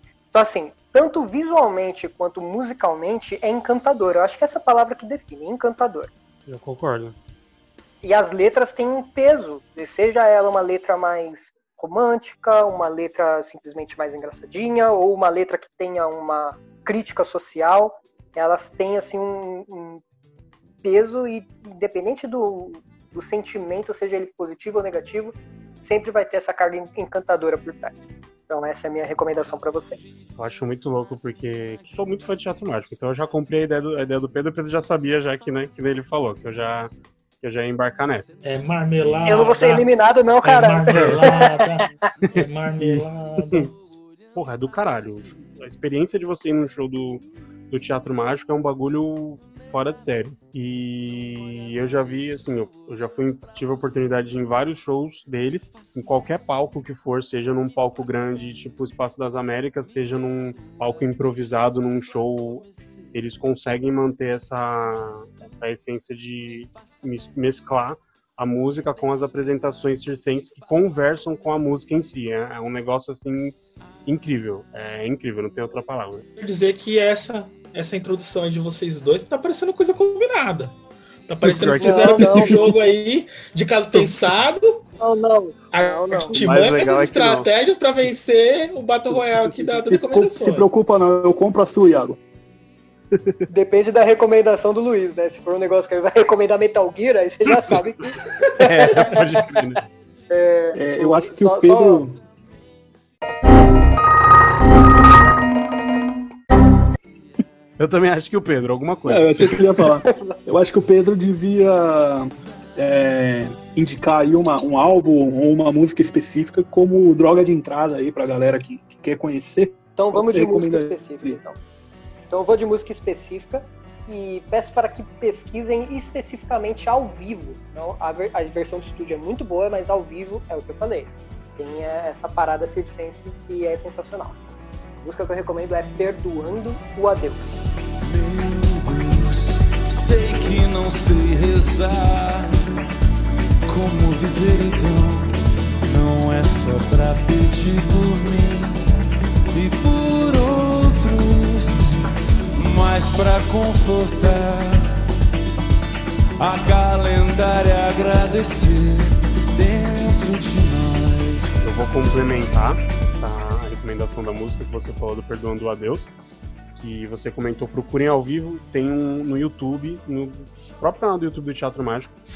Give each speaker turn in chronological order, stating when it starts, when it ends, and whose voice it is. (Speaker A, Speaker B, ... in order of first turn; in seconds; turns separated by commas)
Speaker A: 0.3-6.1, Speaker B: 6.5-7.2, Speaker A: 8.0-20.0, Speaker A: 20.8-30.1, Speaker B: 30.4-36.9, Speaker B: 37.4-38.3, Speaker C: 38.4-39.9, Speaker A: 39.3-41.7, Speaker C: 40.4-43.7, Speaker B: 40.9-41.2, Speaker B: 42.2-43.7, Speaker B: 44.4-73.5, Speaker B: 74.1-76.2, Speaker C: 76.4-80.8, Speaker C: 81.3-84.9, Speaker B: 81.4-82.6, Speaker A: 81.8-82.7, Speaker A: 85.0-86.3, Speaker C: 85.7-90.7, Speaker B: 86.3-87.5, Speaker D: 89.7-92.2, Speaker B: 93.2-93.4, Speaker A: 93.5-99.2, Speaker B: 98.6-99.8, Speaker A: 100.3-102.0, Speaker D: 100.8-102.2, Speaker B: 107.8-109.4, Speaker D: 109.1-121.4, Speaker A: 120.0-121.6, Speaker A: 122.3-134.4, Speaker A: 135.0-137.5, Speaker E: 138.0-142.6, Speaker E: 143.7-145.3, Speaker E: 145.8-148.8, Speaker E: 149.5-152.0, Speaker E: 152.6-154.9, Speaker E: 156.4-161.7, Speaker B: 161.6-166.1, Speaker B: 166.8-172.1